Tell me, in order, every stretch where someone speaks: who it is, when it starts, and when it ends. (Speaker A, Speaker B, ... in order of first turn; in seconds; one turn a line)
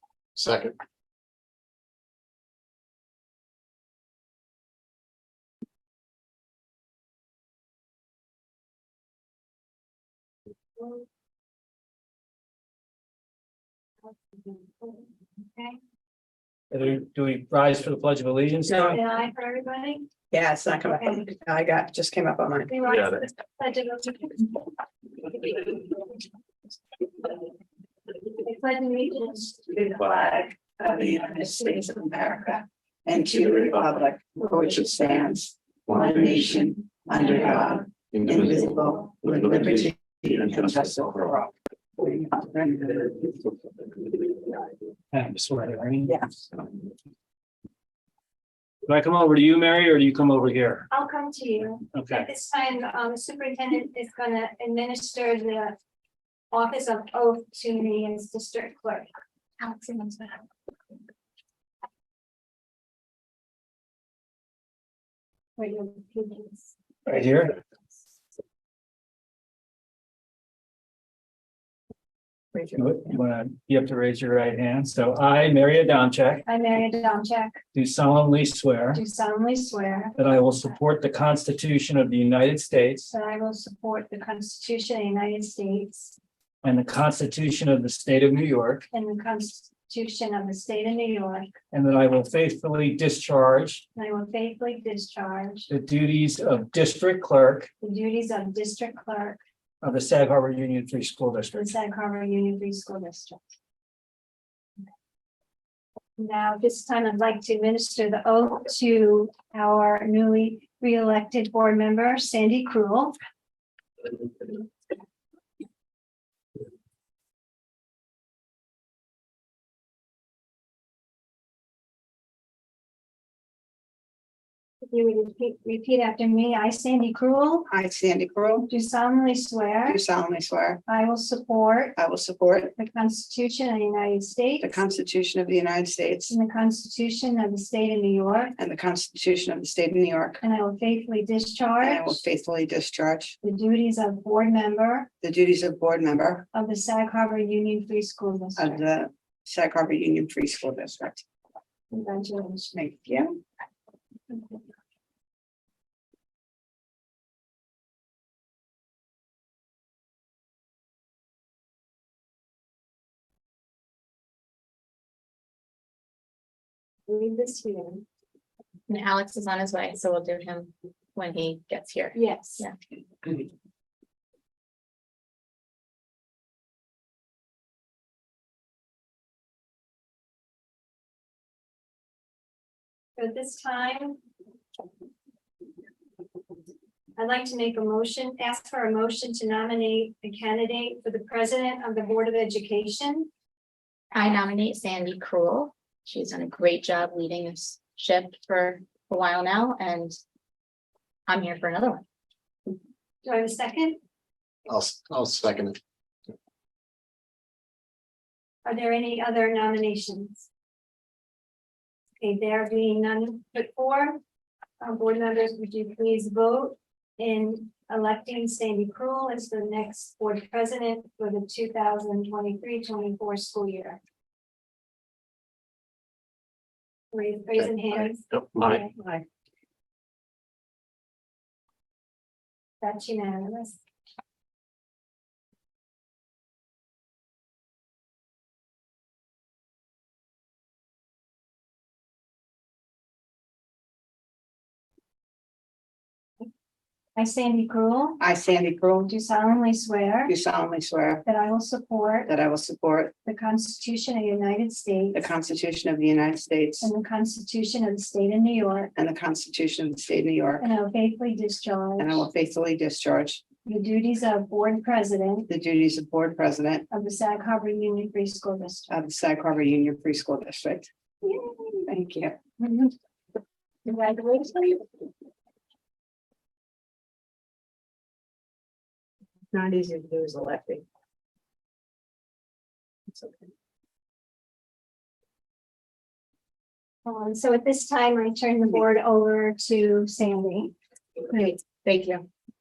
Speaker A: 0.4-0.8
Speaker B: 14.3-15.8
Speaker C: 16.7-19.0
Speaker B: 18.9-20.1
Speaker D: 20.3-22.7
Speaker B: 21.0-21.2
Speaker B: 22.7-24.6
Speaker B: 25.5-25.9
Speaker B: 28.4-29.8
Speaker D: 29.7-43.4
Speaker A: 35.9-36.2
Speaker A: 38.1-38.6
Speaker A: 39.4-39.7
Speaker C: 45.1-46.2
Speaker C: 48.9-50.9
Speaker B: 50.9-55.8
Speaker C: 51.9-52.3
Speaker B: 56.5-59.1
Speaker E: 59.6-60.4
Speaker B: 65.6-66.7
Speaker C: 67.1-67.6
Speaker C: 72.7-76.4
Speaker B: 76.5-77.6
Speaker C: 77.7-79.0
Speaker B: 78.9-80.2
Speaker C: 80.2-83.1
Speaker B: 83.1-86.2
Speaker C: 86.6-88.8
Speaker B: 88.9-91.5
Speaker C: 91.7-93.8
Speaker B: 94.0-95.7
Speaker C: 95.7-97.7
Speaker B: 97.8-99.4
Speaker C: 99.8-101.7
Speaker B: 101.5-103.4
Speaker B: 106.2-113.2
Speaker B: 124.8-127.7
Speaker D: 127.7-128.7
Speaker B: 128.7-130.0
Speaker D: 129.9-130.8
Speaker B: 130.9-132.0
Speaker D: 132.0-132.7
Speaker B: 132.8-134.8
Speaker D: 134.6-136.3
Speaker B: 136.3-138.6
Speaker D: 138.6-140.4
Speaker B: 140.4-142.2
Speaker D: 141.8-143.4
Speaker B: 143.4-145.1
Speaker D: 145.2-146.5
Speaker B: 146.5-148.8
Speaker D: 148.6-151.2
Speaker B: 151.9-152.8
Speaker D: 152.7-153.3
Speaker B: 167.1-168.1
Speaker E: 168.9-172.7
Speaker B: 172.1-172.7
Speaker B: 183.2-184.2
Speaker B: 187.2-193.3
Speaker E: 194.1-200.2
Speaker E: 201.3-202.0
Speaker B: 203.2-204.0
Speaker A: 204.7-205.8
Speaker B: 208.7-210.5
Speaker B: 212.2-214.2
Speaker B: 214.8-224.0
Speaker B: 227.1-228.8
Speaker D: 228.8-229.2
Speaker B: 232.8-233.8
Speaker B: 247.2-248.2
Speaker D: 248.2-249.1
Speaker B: 249.1-250.3
Speaker D: 250.3-251.2
Speaker B: 251.2-252.3
Speaker D: 252.3-253.1
Speaker B: 253.2-255.3
Speaker D: 255.1-256.9
Speaker B: 256.8-258.9
Speaker D: 258.9-260.7
Speaker B: 260.6-262.3
Speaker D: 262.0-263.4
Speaker B: 263.6-265.5
Speaker D: 265.5-266.9
Speaker B: 266.9-268.9
Speaker D: 268.9-270.9
Speaker B: 271.2-271.8
Speaker D: 271.9-272.5
Speaker B: 272.6-272.9
Speaker B: 273.9-274.8
Speaker D: 279.5-280.8
Speaker B: 287.1-290.8
Speaker E: 291.3-292.2